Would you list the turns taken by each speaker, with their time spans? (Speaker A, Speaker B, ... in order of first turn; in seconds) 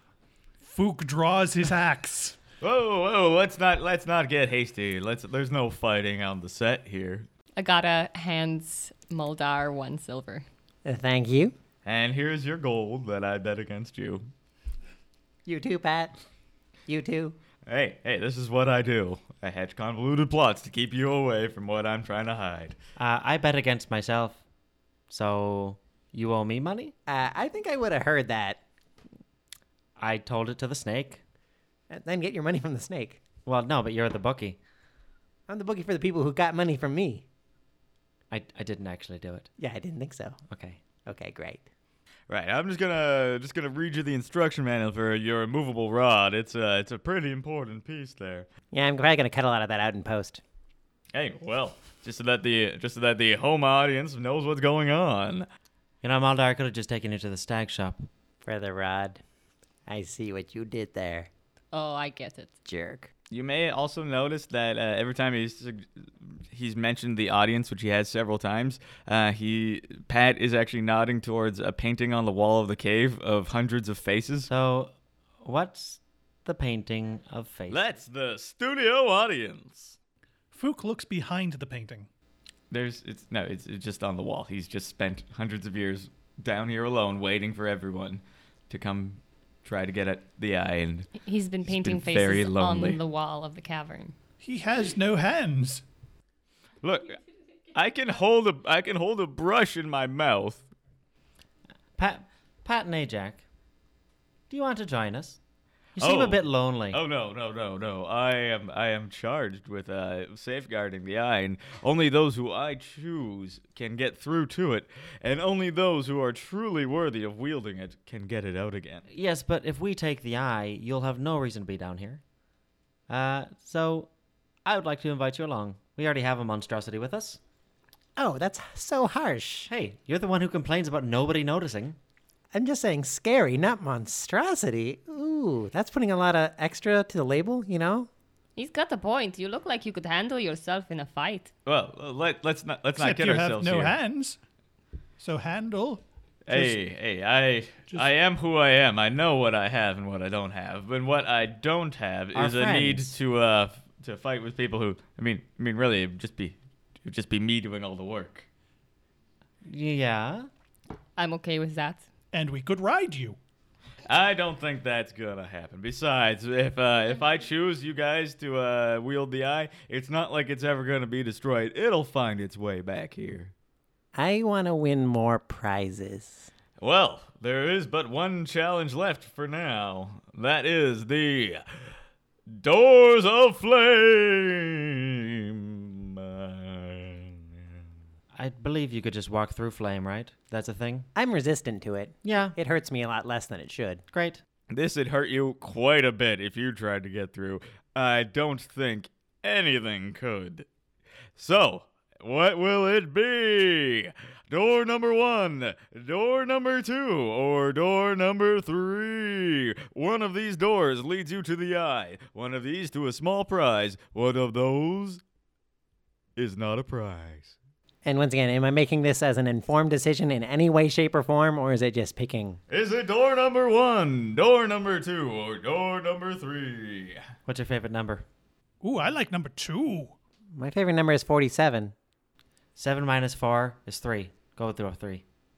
Speaker A: 0.6-2.4, 80.5-82.1, 94.4-95.8, 143.0-144.4, 145.2-146.8, 162.3-163.4, 228.8-230.1
Speaker B: 2.6-7.3, 11.8-14.3, 17.6-22.8, 42.3-48.5, 51.1-55.5, 63.3-74.5, 77.7-80.0, 82.7-91.1, 91.6-93.0, 96.8-97.2, 97.7-100.7, 106.0-119.0, 141.7-144.0, 146.4-158.5, 164.1-173.5, 176.8-181.9, 182.5-187.4, 194.7-200.7, 201.4-215.2, 216.3-217.5, 222.7-227.2
Speaker C: 7.6-10.4, 61.7-62.5, 91.2-94.1, 138.6-141.5, 161.2-162.1
Speaker D: 10.8-11.5, 15.4-16.2, 16.9-17.4, 27.1-28.6, 31.9-33.2, 35.5-37.2, 39.6-40.4, 41.0-41.6, 48.7-50.4, 58.4-59.2, 59.9-61.3, 62.6-63.1, 128.2-129.7, 132.5-138.1, 174.1-176.5, 191.1-194.0, 218.0-222.6, 230.6-231.9
Speaker E: 23.0-24.4, 25.1-26.9, 30.0-31.2, 33.5-34.6, 38.3-39.5, 40.5-40.8, 56.0-58.1, 74.5-77.8, 102.0-103.4, 104.5-105.4, 105.9-107.0, 119.1-122.2, 123.1-124.1, 124.6-127.4, 129.7-132.0, 152.3-153.1, 159.6-160.5, 188.3-191.1, 192.2-192.6, 194.1-194.4, 227.4-228.2, 232.8-235.2